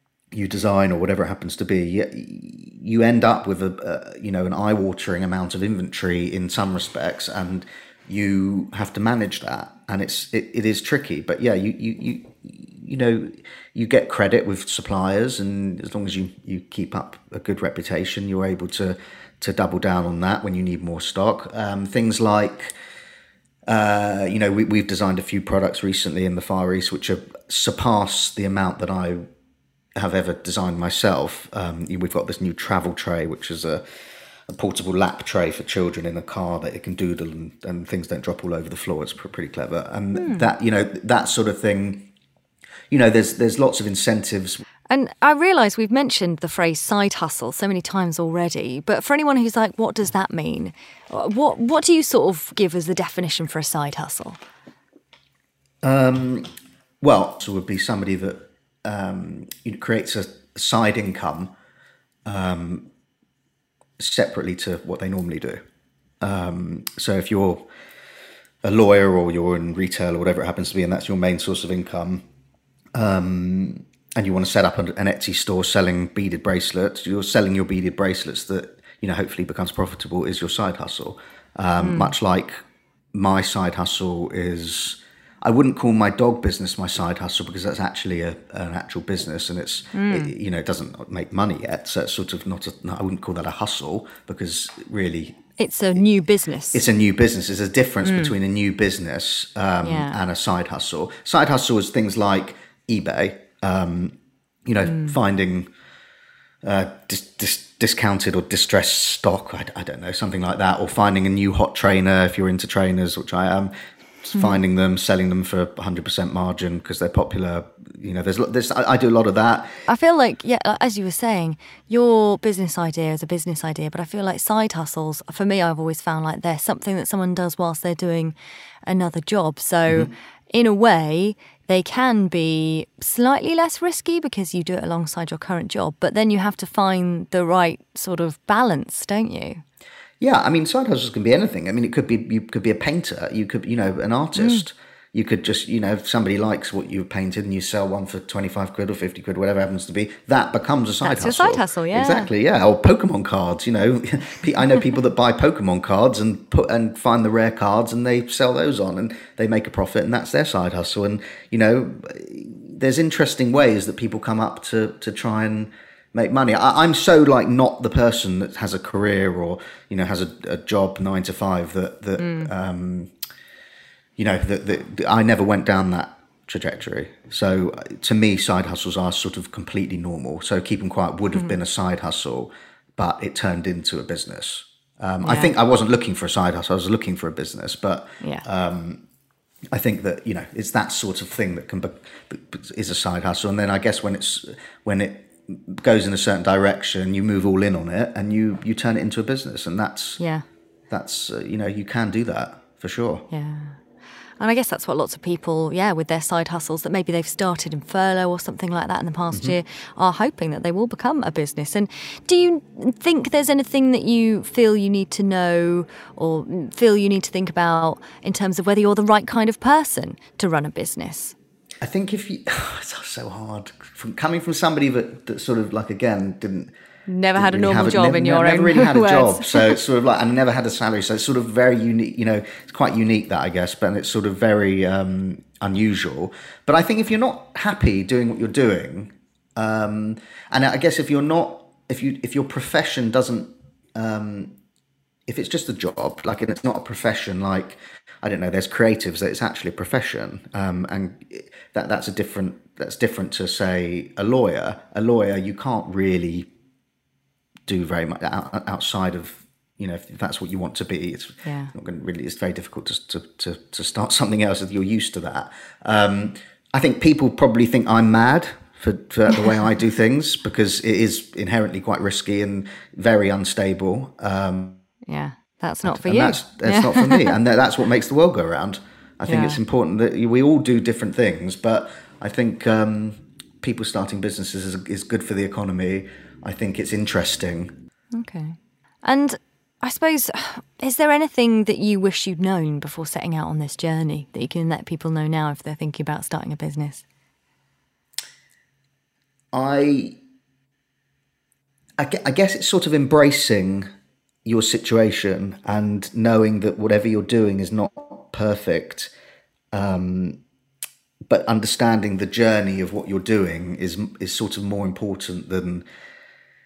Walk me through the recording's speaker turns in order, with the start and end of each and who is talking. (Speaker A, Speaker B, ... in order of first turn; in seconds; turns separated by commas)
Speaker A: 0.3-22.7, Speaker A: 23.7-29.3, Speaker A: 30.0-33.9, Speaker A: 34.5-42.1, Speaker B: 40.1-40.5, Speaker A: 42.9-44.6, Speaker B: 44.9-54.4, Speaker A: 55.8-56.5, Speaker A: 57.0-61.5, Speaker A: 62.2-62.9, Speaker A: 64.0-65.6, Speaker A: 66.2-67.7, Speaker A: 68.6-72.2, Speaker A: 72.9-82.6, Speaker B: 81.8-82.1, Speaker A: 83.1-95.4, Speaker B: 89.9-90.3, Speaker B: 95.6-96.8, Speaker A: 96.7-105.7, Speaker B: 98.0-98.3, Speaker B: 99.8-100.2, Speaker B: 104.8-105.2, Speaker A: 106.6-119.8, Speaker B: 114.3-114.6, Speaker B: 119.9-128.3, Speaker B: 128.8-139.6, Speaker A: 140.2-173.1, Speaker B: 144.4-144.6, Speaker B: 151.0-152.3, Speaker B: 172.2-172.5, Speaker A: 174.2-189.0, Speaker B: 185.2-185.5, Speaker A: 189.7-200.2, Speaker B: 200.2-200.4, Speaker A: 200.9-203.2, Speaker B: 203.3-203.8, Speaker B: 204.4-221.3, Speaker A: 209.3-209.6, Speaker A: 221.8-226.7, Speaker B: 227.1-229.8, Speaker A: 227.3-244.6, Speaker A: 245.3-256.5, Speaker A: 257.7-274.8, Speaker B: 261.4-261.7, Speaker B: 275.1-277.4, Speaker A: 275.9-287.8, Speaker B: 279.3-279.6, Speaker B: 288.1-297.0, Speaker A: 299.5-300.2, Speaker A: 302.0-303.9, Speaker A: 304.4-309.1, Speaker A: 309.7-310.4, Speaker A: 311.3-315.9